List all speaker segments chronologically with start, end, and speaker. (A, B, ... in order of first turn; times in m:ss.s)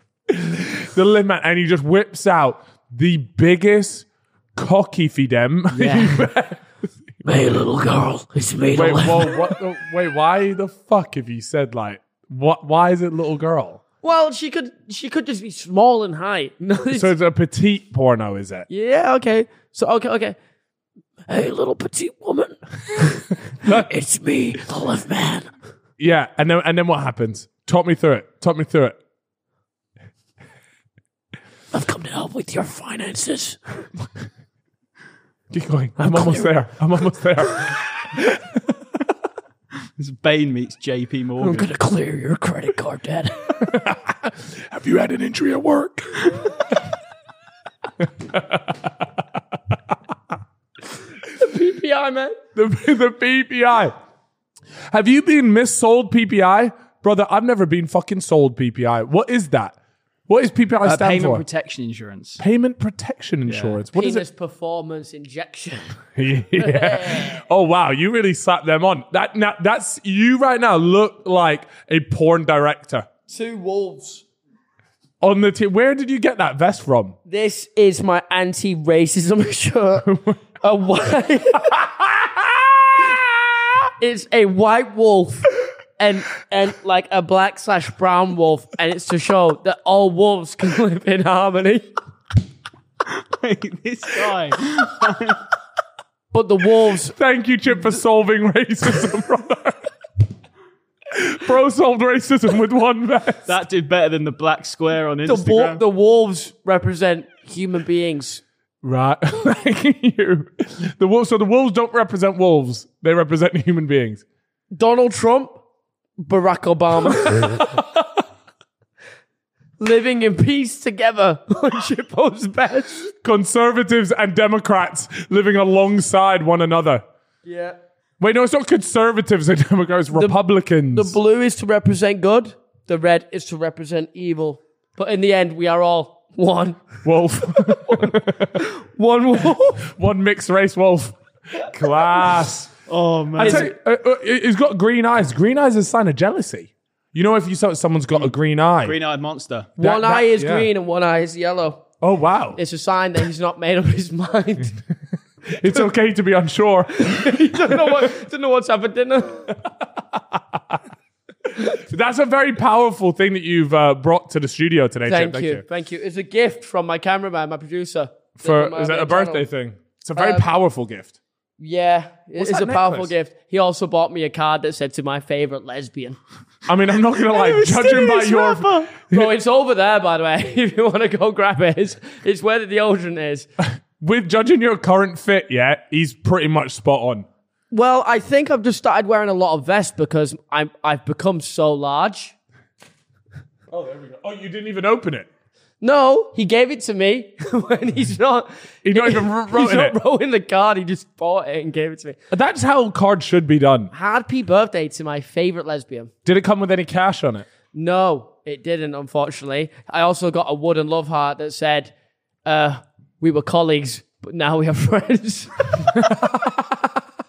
0:00.3-0:06.6 A
0:05.7-0:06.3 B
0:07.2-0:09.5 B
0:08.7-0:13.8 A
0:14.0-0:17.1 B
0:16.9-0:18.7 A
0:18.7-0:20.4 B
0:21.3-0:25.5 B
0:26.0-0:29.0 A
0:31.7-0:33.8 B
0:35.5-0:38.6 A
0:36.0-0:36.5 B
0:40.0-0:41.7 C
0:41.4-0:43.6 B
0:43.6-0:46.3 A
0:48.0-0:48.9 A
0:51.3-0:52.4 B
0:52.5-0:53.9 A
0:54.9-0:59.8 A
1:00.3-1:01.4 A
1:00.8-1:02.4 C
1:02.4-1:04.2 A
1:03.5-1:03.8 C
1:03.9-1:06.0 B
1:06.2-1:13.1 A
1:06.5-1:07.4 B
1:13.3-1:14.2 B
1:15.2-1:17.2 A
1:17.3-1:21.9 B
1:20.0-1:20.4 A
1:21.6-1:23.2 A
1:24.0-1:31.9 B
1:33.0-1:35.5 C
1:36.3-1:37.2 B
1:37.0-1:39.8 A
1:41.1-1:43.6 A
1:43.4-1:45.8 C
1:45.2-1:48.4 B
1:48.8-1:54.2 A
1:54.7-1:55.6 B
1:56.2-1:57.8 B
1:57.4-1:58.0 A
1:59.8-2:03.1 B
2:03.2-2:07.0 A
2:07.4-2:07.8 B
2:08.2-2:11.2 A
2:10.1-2:10.4 B
2:10.9-2:19.9 B
2:17.0-2:18.6 A
2:19.8-2:22.7 A
2:22.9-2:23.7 C
2:22.9-2:23.7 B
2:23.4-2:29.0 A
2:28.8-2:29.7 C
2:29.8-2:30.7 A
2:29.8-2:31.8 B
2:32.0-2:32.6 A
2:32.6-2:34.8 B
2:35.5-2:38.1 A
2:36.9-2:39.6 B
2:40.0-2:40.8 A
2:41.5-2:45.6 A
2:45.0-2:49.4 B
2:48.4-2:51.1 A
2:50.2-2:50.4 B
2:51.6-2:56.2 B
2:52.4-2:53.1 A
2:56.7-2:59.3 A
2:57.2-2:58.9 C
2:59.1-3:03.4 B
3:03.6-3:07.2 A
3:07.7-3:12.3 B
3:13.7-3:15.3 A
3:15.8-3:22.2 B
3:18.8-3:20.0 A
3:22.3-3:23.9 A
3:23.9-3:26.1 B
3:26.2-3:27.4 A
3:27.7-3:31.9 B
3:32.4-3:36.2 B
3:35.9-3:36.9 A